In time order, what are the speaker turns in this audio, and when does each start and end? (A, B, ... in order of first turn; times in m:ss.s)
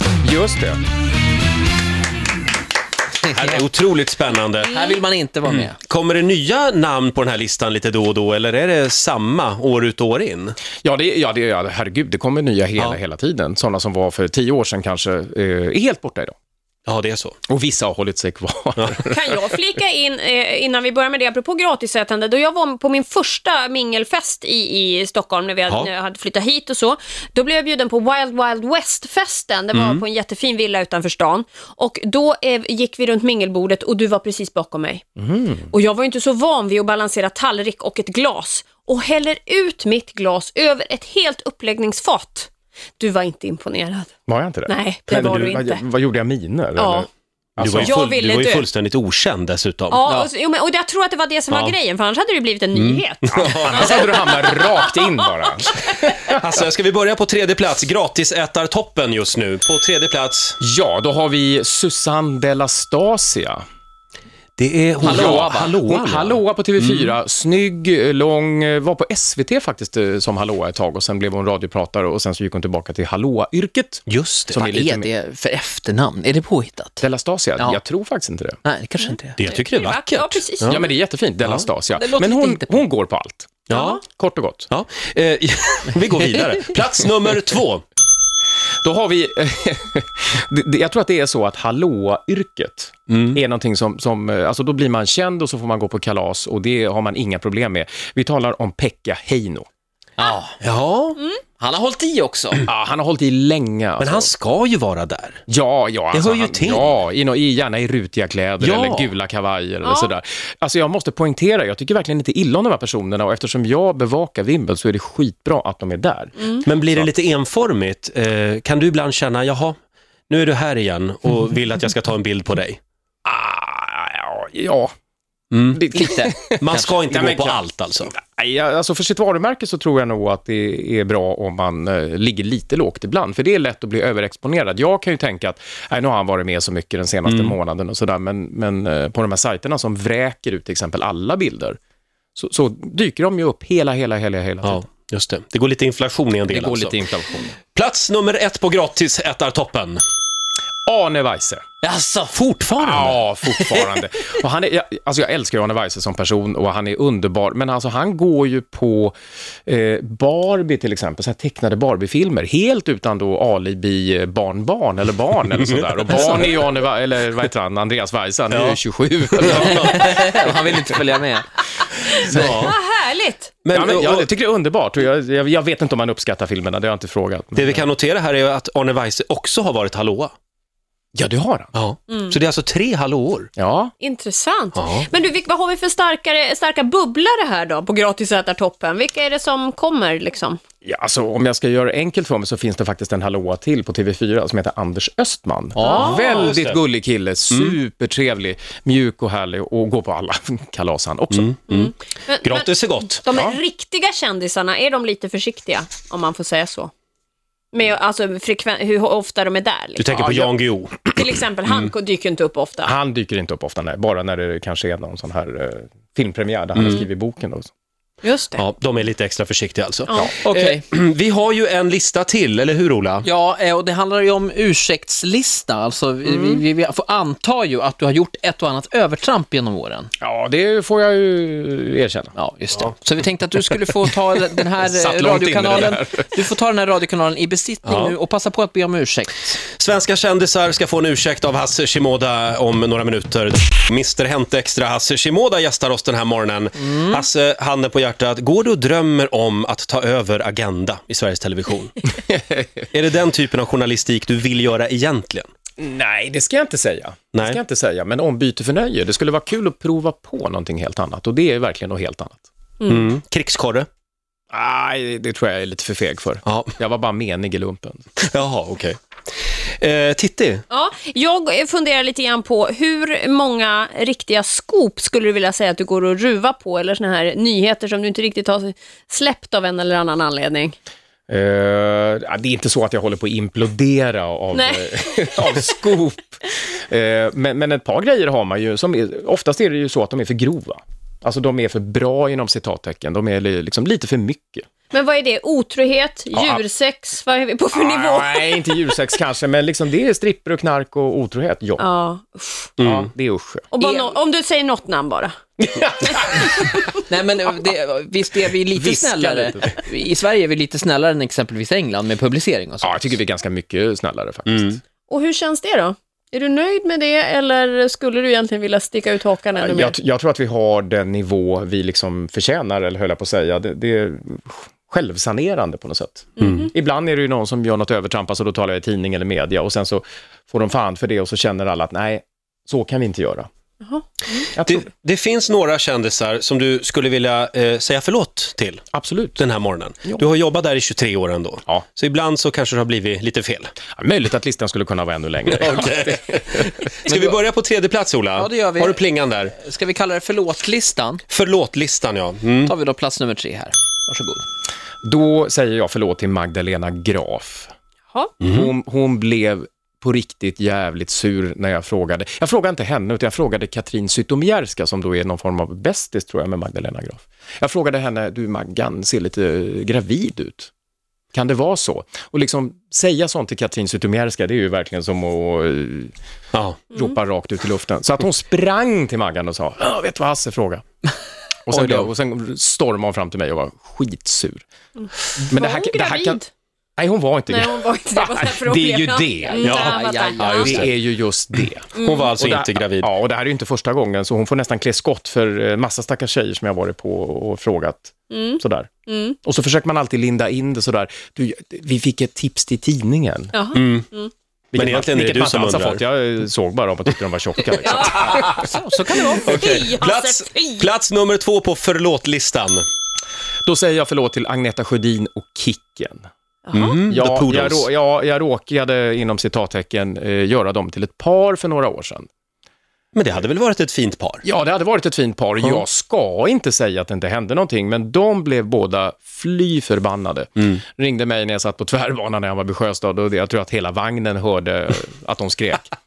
0:00.2-0:00.8 A
0:03.3-0:04.9 B
0:04.7-0:05.8 C
0:05.6-0:10.6 B
0:10.8-0:16.3 A
0:16.9-0:17.4 B
0:17.5-0:19.4 A
0:19.0-0:35.0 D
0:29.7-0:30.0 B
0:35.2-0:35.7 A
0:35.7-0:44.1 D
0:44.3-0:48.0 A
0:44.6-0:45.8 D
0:46.8-0:47.1 D
0:47.6-0:50.1 B
0:47.8-0:48.7 D
0:49.9-0:55.7 D
0:51.5-0:51.8 B
0:52.8-0:54.1 B
0:53.3-0:56.4 A
0:56.3-1:00.6 B
1:00.6-1:03.6 A
1:04.6-1:07.1 B
1:05.0-1:05.8 C
1:05.0-1:15.1 A
1:14.1-1:14.6 B
1:14.6-1:17.0 C
1:17.0-1:18.6 A
1:18.6-1:19.5 C
1:19.4-1:20.8 B
1:19.5-1:20.9 D
1:20.7-1:24.7 A
1:22.0-1:22.8 C
1:23.7-1:24.0 B
1:24.7-1:27.8 B
1:28.8-1:39.7 A
1:33.1-1:33.4 B
1:40.2-1:40.6 C
1:40.6-1:41.2 B
1:41.6-1:42.6 C
1:42.7-1:44.3 A
1:44.0-1:45.4 B
1:45.5-1:57.1 A
1:46.1-1:47.0 B
1:48.6-1:49.1 B
1:49.8-1:50.1 D
1:56.6-1:59.8 B
2:00.3-2:02.8 B
2:03.2-2:04.9 A
2:05.5-2:05.8 B
2:05.7-2:21.8 A
2:06.0-2:06.9 C
2:06.6-2:08.1 B
2:17.3-2:17.6 B
2:22.4-2:24.8 A
2:24.6-2:27.0 B
2:26.5-2:27.6 A
2:27.7-2:30.0 B
2:30.9-2:31.6 A
2:31.8-2:33.0 C
2:32.4-2:32.8 B
2:32.8-2:39.2 A
2:39.7-2:50.3 A
2:45.6-2:45.8 B
2:48.5-2:48.8 B
2:49.4-2:50.3 B
2:49.6-2:51.4 C
2:52.0-2:53.6 D
2:52.2-2:52.8 B
2:52.3-2:52.7 A
2:53.6-2:54.3 B
2:53.7-2:57.9 A
2:57.6-3:00.4 B
3:01.2-3:01.7 A
3:01.7-3:03.5 B
3:02.1-3:02.4 D
3:03.6-3:03.9 A
3:04.0-3:10.6 D
3:04.8-3:05.1 B
3:10.8-3:21.5 A
3:15.8-3:16.3 C
3:15.8-3:16.5 D
3:15.9-3:16.8 B
3:21.3-3:23.3 B
3:21.7-3:26.9 D
3:23.3-3:23.6 A
3:27.7-3:30.5 D
3:30.0-3:31.9 B
3:31.1-3:32.9 D
3:32.8-3:37.7 A
3:36.8-3:37.0 B
3:38.2-3:38.6 D
3:38.6-3:43.3 B
3:40.1-3:40.3 D
3:40.4-3:40.8 C
3:43.2-3:50.1 C
3:46.3-3:46.6 D
3:50.2-3:52.3 A
3:52.4-3:59.6 C
3:54.8-3:56.3 A
3:57.8-3:58.2 B
3:59.8-4:12.0 B
4:06.8-4:07.2 C
4:12.3-4:12.7 A
4:12.9-4:15.5 B
4:15.8-4:22.4 A
4:22.8-4:23.1 D
4:22.9-4:23.9 B
4:24.5-4:28.0 A
4:26.4-4:26.7 B
4:28.2-4:29.0 B
4:29.8-4:30.6 B
4:30.7-4:40.8 D
4:41.3-4:54.7 A
4:44.5-4:45.5 D
4:54.9-4:58.9 D
4:56.3-4:56.6 A
4:57.7-5:01.8 A
5:01.8-5:02.7 D
5:02.8-5:03.1 B
5:02.8-5:03.7 A
5:03.7-5:06.9 D
5:05.6-5:06.8 A
5:07.1-5:13.1 C
5:08.7-5:09.8 A
5:12.8-5:14.8 A
5:14.5-5:14.8 B
5:15.1-5:20.0 D
5:19.6-5:33.5 A
5:26.4-5:26.7 D
5:26.4-5:26.7 B
5:33.8-5:34.5 D
5:34.6-5:34.9 A
5:34.6-5:43.7 B
5:38.9-5:39.4 A
5:44.0-5:46.9 A
5:45.5-5:49.5 B
5:48.4-5:51.2 C
5:51.3-5:52.7 B
5:52.6-5:54.4 C
5:55.0-5:57.7 A
5:58.4-5:58.7 B
5:58.4-6:10.7 A
6:11.3-6:16.1 A
6:16.5-6:16.8 B
6:16.9-6:20.8 A
6:21.7-6:24.6 A
6:21.7-6:22.1 B
6:25.4-6:26.4 A
6:25.5-6:26.5 D
6:27.0-6:29.8 A
6:27.5-6:30.8 D
6:29.6-6:30.9 B
6:29.6-6:30.8 C
6:30.6-6:38.9 A
6:31.6-6:33.1 B
6:32.0-6:32.4 D
6:38.3-6:39.4 D
6:39.4-6:43.6 A
6:43.5-6:44.3 D
6:43.7-6:44.1 B
6:44.7-6:48.5 A
6:44.8-6:46.0 B
6:47.8-6:48.5 D
6:48.5-6:49.4 C
6:49.1-6:50.9 D
6:49.4-6:52.9 B
6:53.7-6:56.3 A
6:56.7-6:57.0 D
6:56.7-6:57.9 B
6:57.1-7:02.3 A
7:03.1-7:04.4 B
7:04.4-7:15.9 A